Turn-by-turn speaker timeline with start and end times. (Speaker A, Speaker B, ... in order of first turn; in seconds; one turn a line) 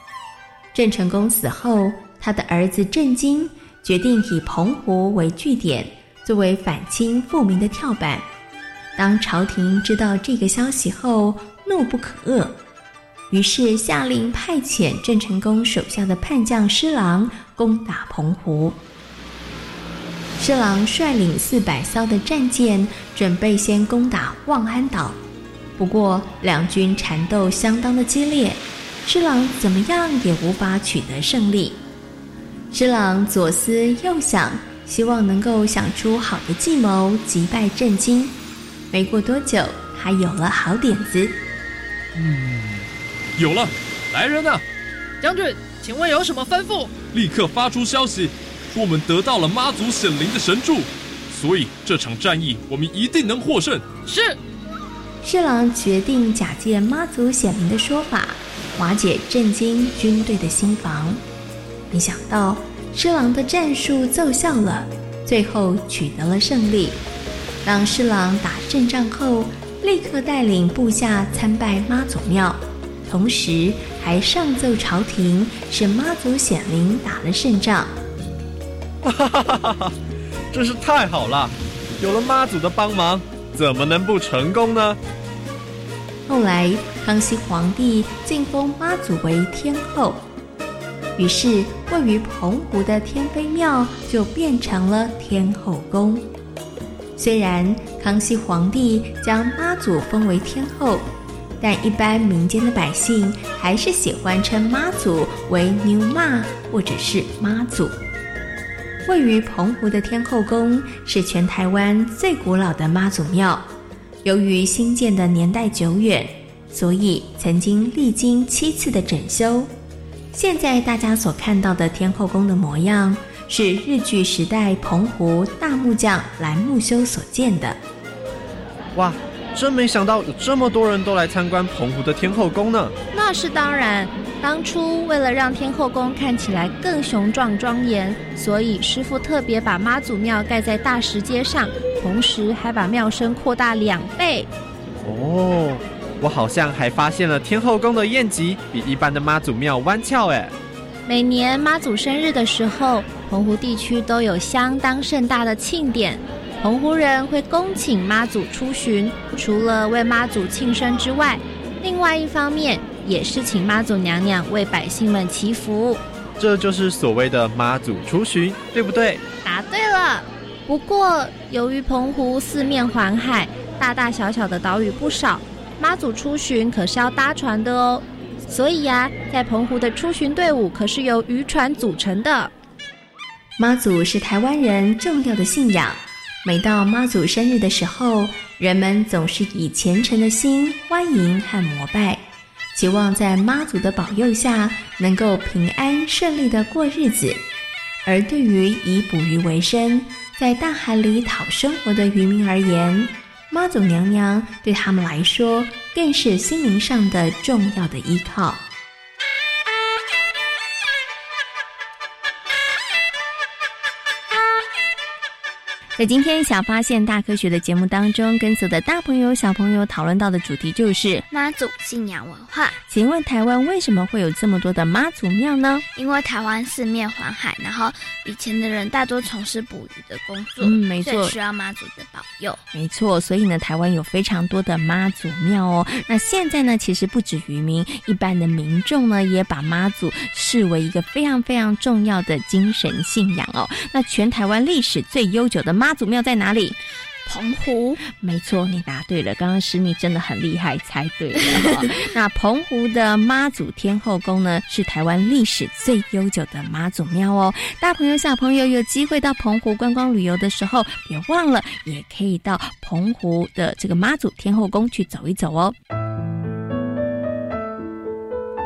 Speaker A: 0.7-8.2
Speaker A: 9.0-12.6
Speaker A: 13.3-18.8
Speaker A: 20.4-25.2
Speaker A: 25.8-31.8
Speaker A: 32.7-38.4
Speaker A: 38.9-41.4
Speaker B: 42.1-44.6
Speaker C: 45.2-47.0
Speaker B: 47.0-53.9
Speaker C: 54.0-54.4
Speaker A: 55.2-61.2
Speaker A: 61.9-67.0
Speaker A: 67.6-77.9
Speaker D: 79.0-79.9
Speaker D: 80.5-85.0
Speaker A: 86.3-90.2
Speaker A: 91.2-96.3
Speaker A: 97.2-101.1
Speaker A: 101.6-107.9
Speaker A: 109.0-113.6
Speaker A: 114.2-119.7
Speaker A: 120.3-127.8
Speaker D: 128.9-132.9
Speaker E: 133.1-144.5
Speaker D: 145.0-150.5
Speaker E: 151.1-166.0
Speaker D: 166.4-169.2
Speaker E: 169.4-182.5
Speaker A: 183.6-192.2
Speaker A: 192.7-197.4
Speaker A: 198.0-208.6
Speaker A: 216.0-221.2
Speaker F: 221.3-222.8
Speaker A: 222.9-225.8
Speaker F: 225.9-232.6
Speaker A: 230.6-231.3
Speaker A: 232.7-246.7
Speaker F: 247.2-248.0
Speaker A: 248.0-265.7